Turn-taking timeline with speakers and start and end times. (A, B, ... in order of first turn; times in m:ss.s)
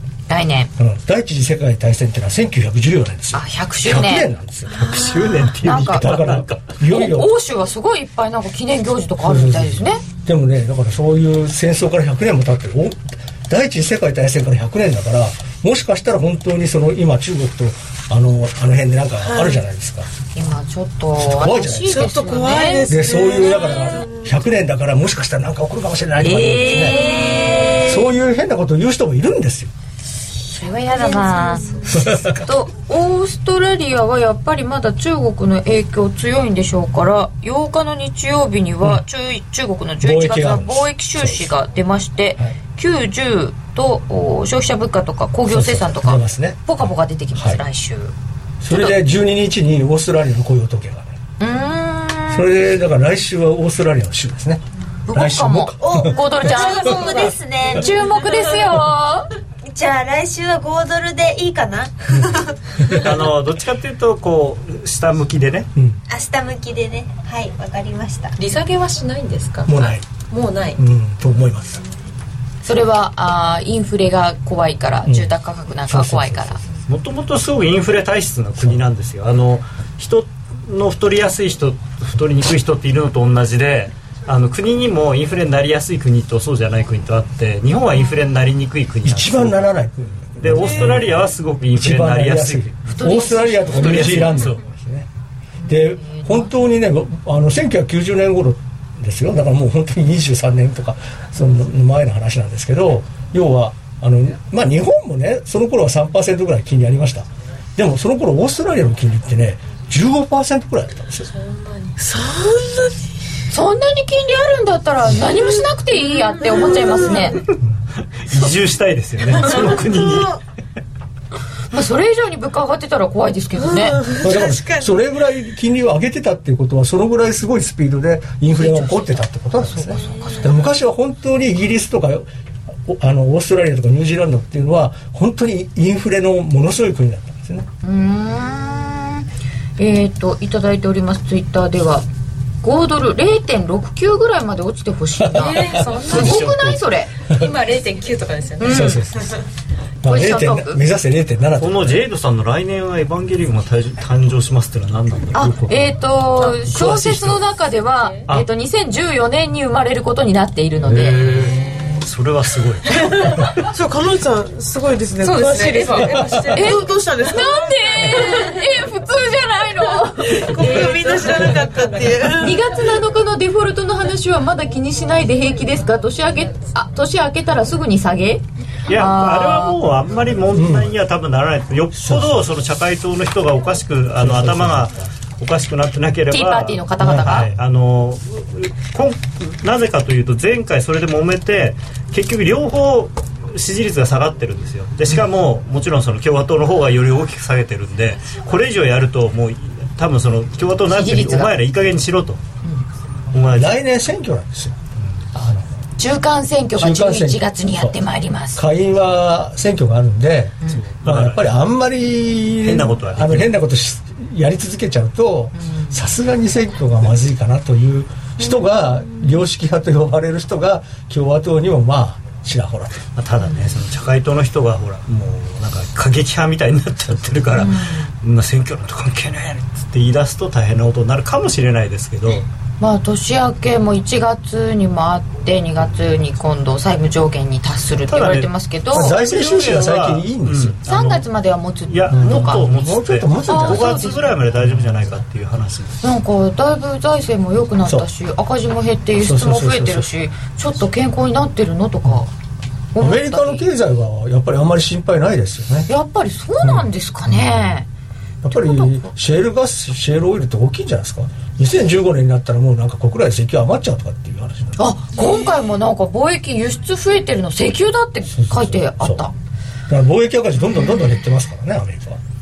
0:00.3-0:00.7 A
0:00.8-0:07.3 B
0:03.3-0:04.3 A
0:04.7-0:06.6 C
0:05.6-0:06.1 A
0:06.8-0:10.0 A
0:09.2-0:20.1 B
0:19.2-0:19.6 D
0:20.3-0:22.9 A
0:21.2-0:22.2 B
0:21.8-0:24.4 D
0:22.9-0:27.0 B
0:26.2-0:27.9 A
0:27.6-0:27.9 E
0:27.8-0:29.7 B
0:30.4-0:48.1 A
0:30.9-0:31.8 D
0:31.9-0:32.4 B
0:40.0-0:41.5 B
0:45.5-0:47.6 B
0:48.6-0:51.1 B
0:48.7-0:49.0 A
0:51.4-0:52.5 A
0:52.3-0:56.1 B
0:55.0-0:59.3 A
0:55.8-0:58.7 E
0:59.6-1:02.4 E
1:02.9-1:05.7 C
1:06.1-1:08.4 E
1:08.4-1:10.8 F
1:09.6-1:10.0 B
1:10.8-1:11.8 B
1:12.6-1:16.6 A
1:15.0-1:16.7 B
1:16.9-1:29.7 C
1:29.0-1:35.1 B
1:30.4-1:32.8 C
1:32.9-1:34.4 A
1:33.7-1:34.6 C
1:35.6-1:36.5 A
1:35.6-1:51.3 B
1:51.9-1:53.0 D
1:53.5-1:57.4 A
1:56.4-1:57.4 D
1:58.2-2:00.4 C
2:01.7-2:04.0 A
2:03.6-2:05.0 D
2:04.1-2:12.3 B
2:08.5-2:10.6 A
2:12.9-2:17.7 B
2:17.8-2:19.2 A
2:19.8-2:22.1 A
2:22.6-2:27.1 A
2:25.2-2:26.1 B
2:25.4-2:26.6 F
2:26.0-2:26.8 C
2:27.3-2:29.0 F
2:28.6-2:29.0 A
2:28.6-2:29.3 B
2:30.0-2:32.0 B
2:30.0-2:30.8 A
2:31.6-2:35.9 C
2:35.3-2:41.4 A
2:36.5-2:37.4 C
2:40.9-2:43.4 C
2:43.0-2:48.5 D
2:45.2-2:46.8 F
2:46.5-2:51.0 A
2:50.3-2:52.6 D
2:52.4-2:59.8 A
2:58.9-3:22.4 C
3:00.5-3:00.9 B
3:01.9-3:02.5 B
3:04.2-3:05.0 B
3:06.3-3:07.5 A
3:07.0-3:07.5 B
3:20.9-3:21.5 A
3:23.3-3:23.8 C
3:23.5-3:24.8 B
3:25.3-3:25.7 B
3:26.0-3:28.6 A
3:26.8-3:27.9 B
3:28.5-3:43.0 B
3:30.7-3:31.5 C
3:32.6-3:33.5 C
3:35.6-3:36.0 A
3:43.2-3:52.4 C
3:43.4-3:43.8 A
3:47.5-3:48.1 A
3:52.8-3:59.1 A
3:58.1-4:01.2 C
3:58.9-4:00.8 B
4:00.9-4:02.6 A
4:01.9-4:06.0 C
4:02.1-4:05.1 B
4:03.4-4:04.3 A
4:06.0-4:12.3 A
4:09.2-4:10.1 B
4:12.9-4:13.7 A
4:13.0-4:15.9 B
4:15.9-4:17.9 A
4:16.6-4:17.8 B
4:18.4-4:24.8 B
4:18.5-4:19.1 A
4:24.8-4:29.3 A
4:28.3-4:29.2 B
4:29.9-4:32.2 B